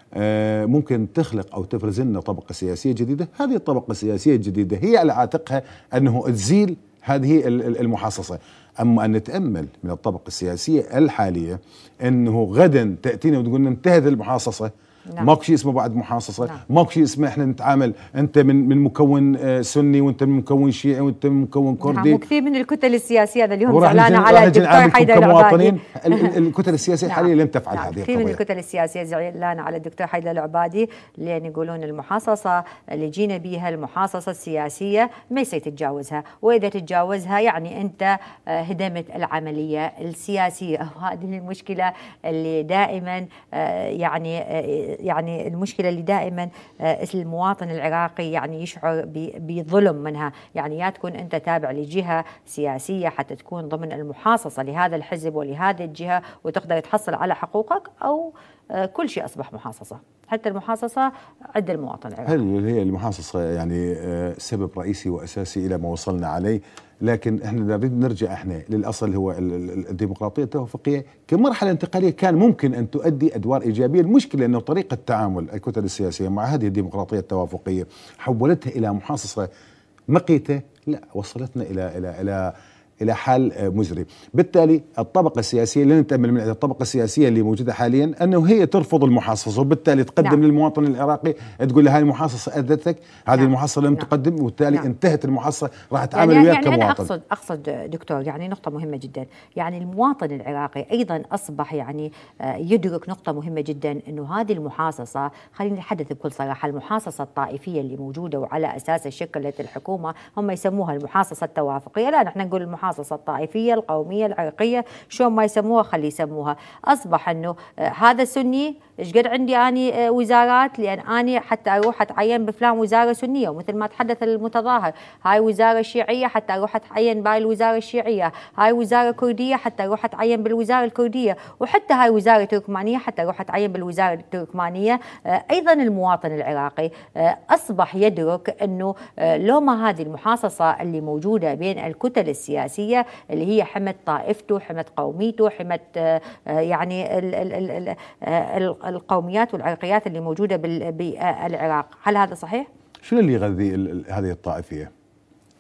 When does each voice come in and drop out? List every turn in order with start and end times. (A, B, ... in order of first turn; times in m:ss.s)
0:00.2-0:22.2 A
0:21.8-0:26.3 B
0:23.7-0:28.4 A
0:27.1-1:02.4 B
1:02.3-1:19.5 A
1:20.1-1:37.1 A
1:33.4-1:34.1 B
1:36.2-2:32.7 B
2:33.0-2:34.9 A